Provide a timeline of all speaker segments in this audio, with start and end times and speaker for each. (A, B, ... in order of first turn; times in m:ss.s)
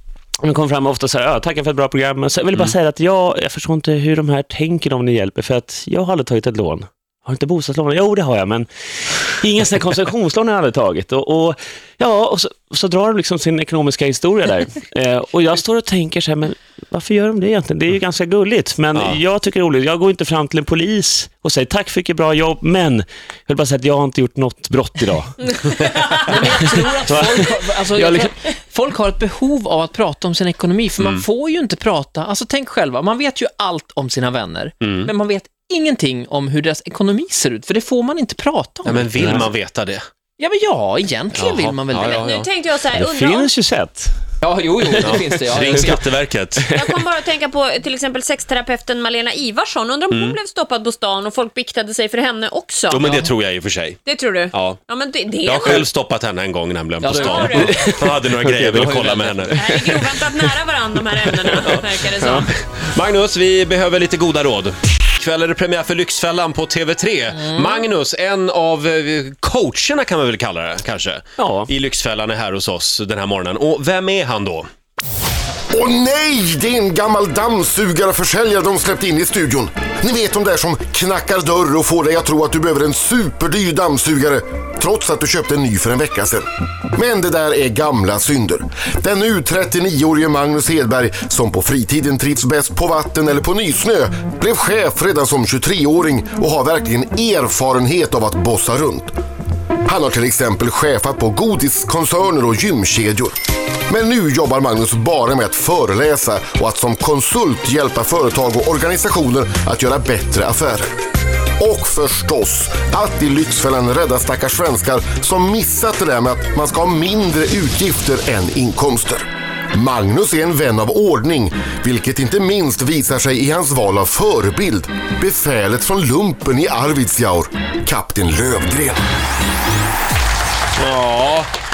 0:00.4-0:25.5 A
0:25.5-0:26.3 B
0:26.2-0:39.4 C
0:26.5-0:28.3 A
0:31.0-0:31.2 D
0:34.8-0:35.1 D
0:38.8-0:40.0 D
0:39.2-0:39.5 A
0:40.4-0:42.2 C
0:41.3-0:42.5 D
0:42.0-0:43.5 B
0:42.9-0:44.2 A
0:44.4-0:46.1 C
0:45.0-0:46.7 D
0:46.7-0:53.1 B
0:46.8-0:47.0 A
0:50.1-0:50.4 D
0:52.9-0:54.0 D
0:54.0-0:55.9 B
0:54.5-0:54.8 D
0:55.4-0:59.7 D
0:57.0-0:57.7 C
0:57.1-0:57.8 B
0:57.5-1:00.5 A
0:58.8-0:59.3 C
0:59.5-1:02.5 B
1:01.3-1:02.5 A
1:02.5-1:14.7 D
1:11.4-1:11.7 A
1:15.7-1:39.1 E
1:39.9-1:43.3 E
1:43.9-1:50.8 E
1:51.6-2:09.0 E
2:10.8-2:11.5 D